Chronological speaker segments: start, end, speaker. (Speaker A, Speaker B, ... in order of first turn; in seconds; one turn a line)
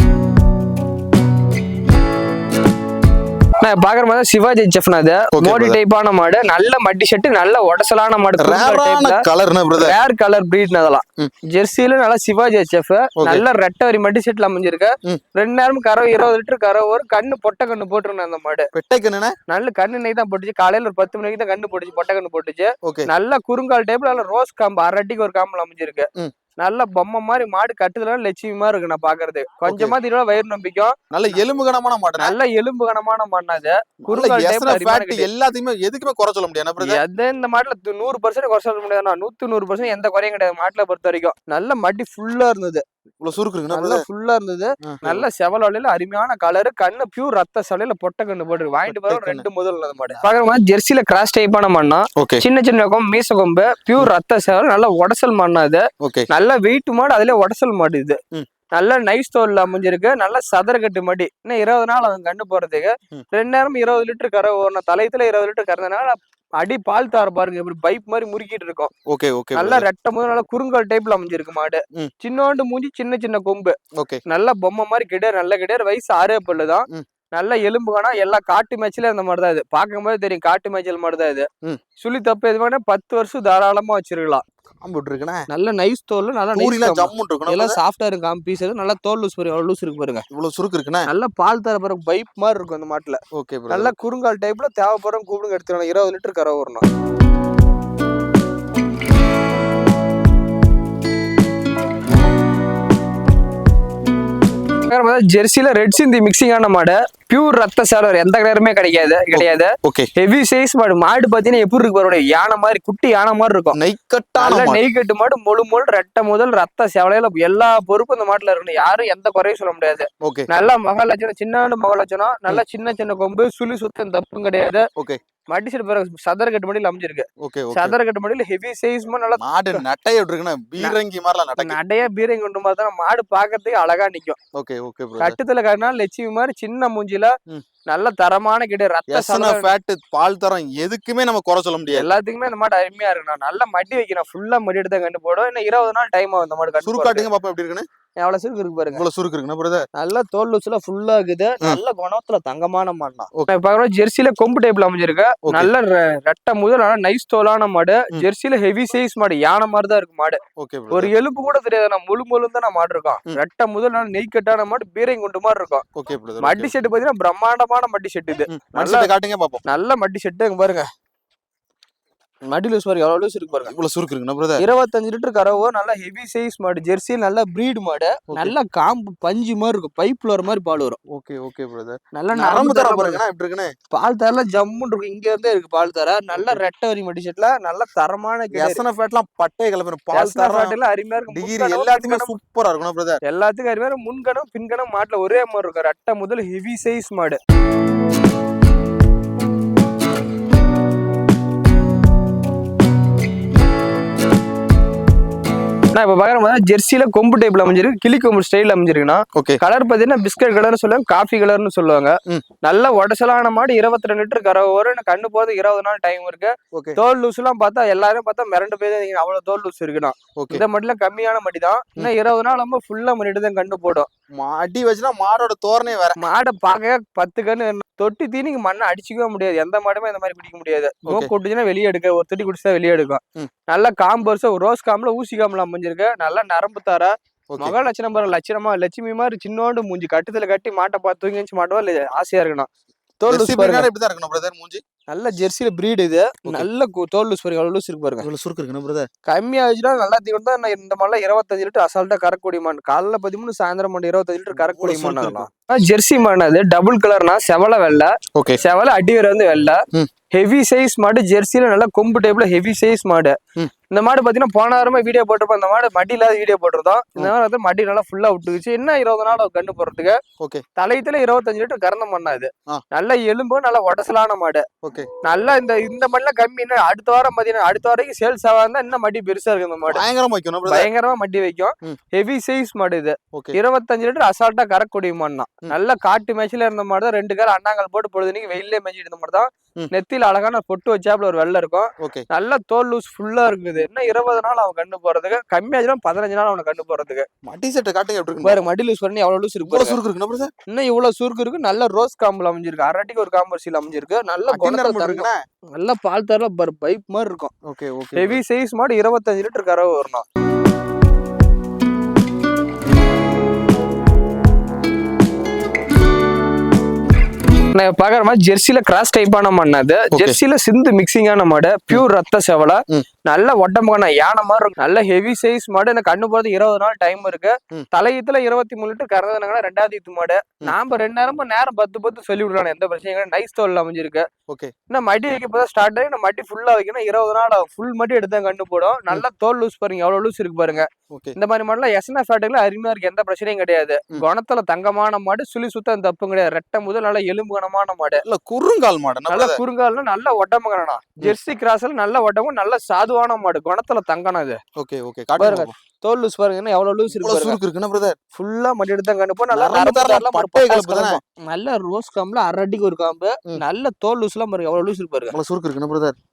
Speaker A: 3.6-18.7
Speaker B: 5.3-5.8
Speaker B: 8.4-9.9
Speaker B: 13.2-13.4
Speaker B: 18.7-19.4
Speaker A: 19.5-26.1
Speaker B: 22.8-23.1
Speaker A: 26.6-30.9
Speaker B: 29.6-29.9
Speaker B: 31.1-32.3
Speaker A: 32.2-35.3
Speaker B: 34.0-37.0
Speaker A: 36.8-42.8
Speaker B: 43.2-44.0
Speaker A: 43.7-58.2
Speaker B: 44.8-45.2
Speaker B: 48.9-49.4
Speaker B: 56.0-56.3
Speaker A: 58.7-68.9
Speaker B: 69.1-69.8
Speaker A: 69.5-73.7
Speaker B: 74.0-74.2
Speaker A: 74.3-81.5
Speaker A: 82.0-84.4
Speaker B: 84.8-85.5
Speaker A: 85.5-90.2
Speaker B: 86.5-87.8
Speaker B: 90.3-91.1
Speaker A: 91.1-93.2
Speaker B: 93.3-93.9
Speaker A: 93.7-96.8
Speaker A: 104.9-113.8
Speaker B: 109.3-110.1
Speaker B: 113.7-114.8
Speaker A: 114.4-124.8
Speaker B: 120.2-120.5
Speaker A: 125.5-129.8
Speaker B: 127.4-128.0
Speaker B: 129.4-131.8
Speaker A: 131.6-134.4
Speaker B: 134.6-135.4
Speaker A: 135.2-137.3
Speaker A: 137.9-139.7
Speaker B: 139.1-142.1
Speaker A: 141.9-147.3
Speaker B: 146.8-147.8
Speaker A: 148.2-149.0
Speaker B: 148.9-149.8
Speaker A: 149.9-160.4
Speaker B: 155.4-155.7
Speaker B: 160.6-161.1
Speaker A: 160.9-165.8
Speaker B: 165.9-166.7
Speaker A: 166.4-169.1
Speaker B: 168.5-169.6
Speaker A: 169.6-170.9
Speaker A: 172.4-173.7
Speaker B: 173.6-174.6
Speaker A: 174.6-181.0
Speaker B: 181.1-183.7
Speaker A: 182.1-183.2
Speaker A: 183.9-188.8
Speaker B: 188.5-190.8
Speaker A: 190.1-192.3
Speaker B: 191.3-193.2
Speaker A: 193.2-197.4
Speaker A: 205.9-224.1
Speaker B: 220.4-220.6
Speaker B: 224.3-226.2
Speaker A: 226.2-242.7
Speaker A: 243.2-243.9
Speaker B: 243.3-244.8
Speaker A: 245.1-248.3
Speaker B: 248.2-249.1
Speaker A: 249.3-259.8
Speaker B: 254.5-255.4
Speaker A: 260.3-263.4
Speaker A: 263.9-270.2
Speaker A: 270.8-274.6
Speaker B: 274.8-275.1
Speaker A: 275.2-280.0
Speaker B: 279.9-280.9
Speaker A: 280.6-297.2
Speaker B: 292.0-292.2
Speaker B: 297.4-298.6
Speaker A: 298.4-300.0
Speaker B: 299.7-300.5
Speaker A: 300.7-307.5
Speaker B: 304.5-305.4
Speaker B: 307.7-308.4
Speaker A: 308.1-310.2
Speaker A: 317.7-334.2
Speaker A: 334.9-348.2
Speaker B: 341.1-341.4
Speaker B: 348.2-349.6
Speaker A: 349.3-354.6
Speaker B: 354.8-355.7
Speaker A: 355.4-357.6
Speaker B: 357.1-358.1
Speaker A: 358.3-365.3
Speaker B: 359.5-361.2
Speaker B: 365.3-366.1